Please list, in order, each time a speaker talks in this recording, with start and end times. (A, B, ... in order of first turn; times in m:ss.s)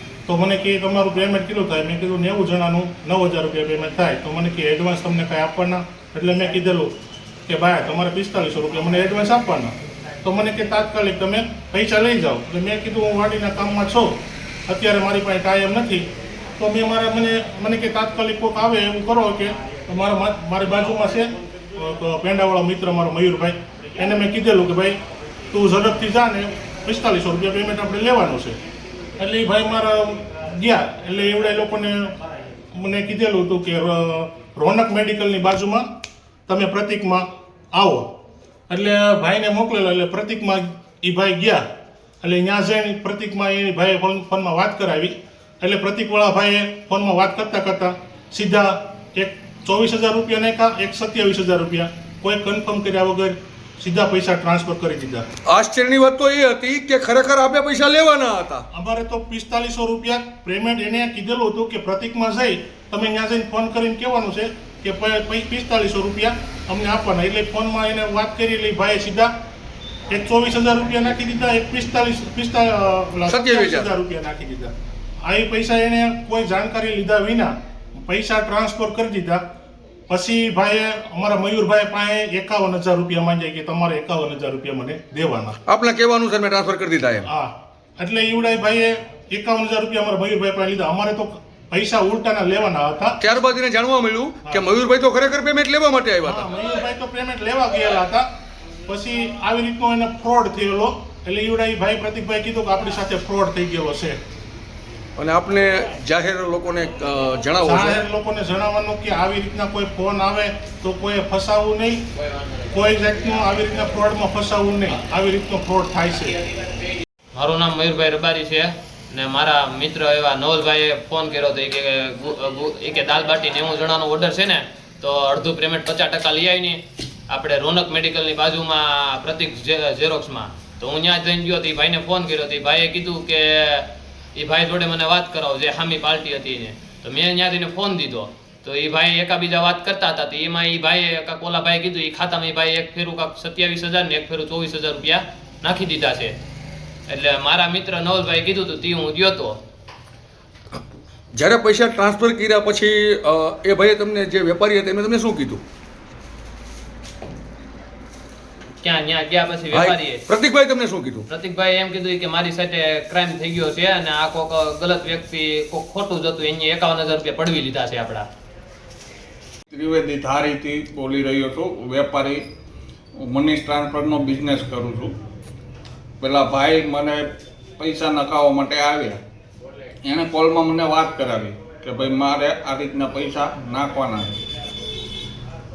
0:00.2-0:25.0 A
0:25.5-0:28.6 A
0:29.2-0:32.2 A
0:32.7-0:35.9 A
0:36.5-0:38.1 A
0:38.7-0:41.6 A
0:42.2-0:55.2 A
0:55.5-0:58.6 B
0:58.7-1:09.3 A
1:10.1-1:19.4 A
1:13.3-1:13.9 B
1:20.1-1:25.6 A
1:25.7-1:27.3 B
1:27.2-1:33.2 A
1:33.2-1:36.4 B
1:36.2-1:38.3 A
1:38.8-1:44.2 A
1:45.2-1:48.0 B
1:47.6-1:52.0 A
1:52.7-1:56.4 A
1:57.3-2:26.4 C
2:27.1-2:29.6 C
2:31.3-2:35.6 B
2:38.8-2:40.2 C
2:39.7-2:41.2 B
2:41.3-2:48.3 C
2:49.7-2:52.4 D
2:53.2-2:55.1 D
2:56.2-2:57.2 D
2:57.8-2:59.2 D
3:00.0-3:04.4 D